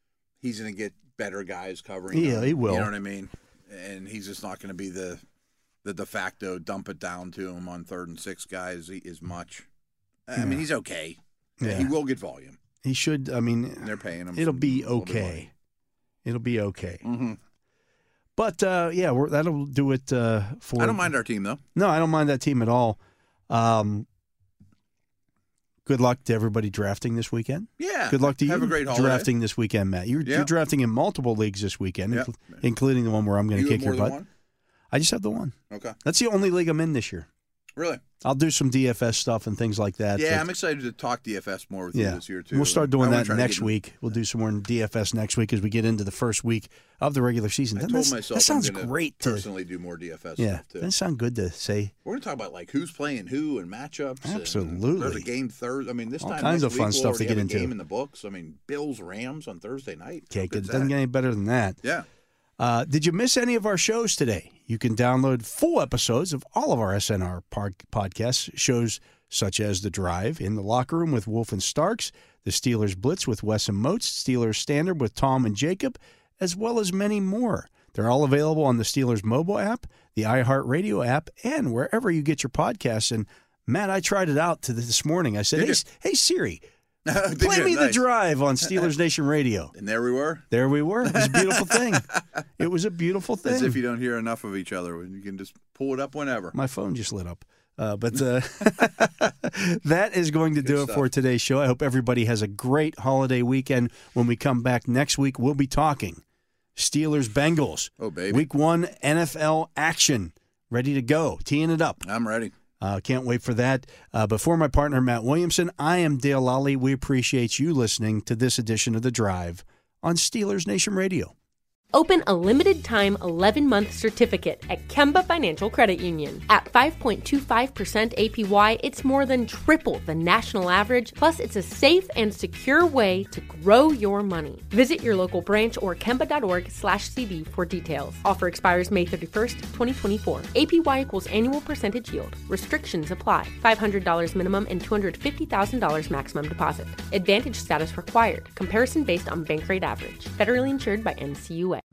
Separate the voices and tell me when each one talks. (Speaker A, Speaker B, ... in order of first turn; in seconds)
Speaker A: 0.4-5.2, 5.8-9.7, 10.3-12.6, 13.8-15.5, 17.0-17.4, 20.8-21.6, 27.8-29.3, 30.2-30.5, 32.1-32.6, 33.5-34.3, 35.7-36.0, 37.8-38.0, 40.1-43.8, 47.8-50.9, 52.0-61.0, 85.5-85.8, 87.1-88.1, 88.6-88.9, 89.7-90.5, 91.0-92.2, 93.4-96.6, 100.6-101.1, 108.0-108.5, 112.0-112.5
Speaker B: 2.1-2.9, 10.4-10.7, 11.6-11.9, 12.8-15.5, 16.2-17.1, 18.4-21.1, 21.8-24.1, 25.9-34.2, 34.9-37.3, 38.2-40.5, 41.9-49.5, 50.4-51.9, 54.2-55.3, 56.2-57.7, 60.3-61.8, 62.6-86.6, 87.4-89.7, 90.5-93.8, 96.5-106.2, 106.8-112.0, 112.8-121.3
Speaker C: 121.9-151.8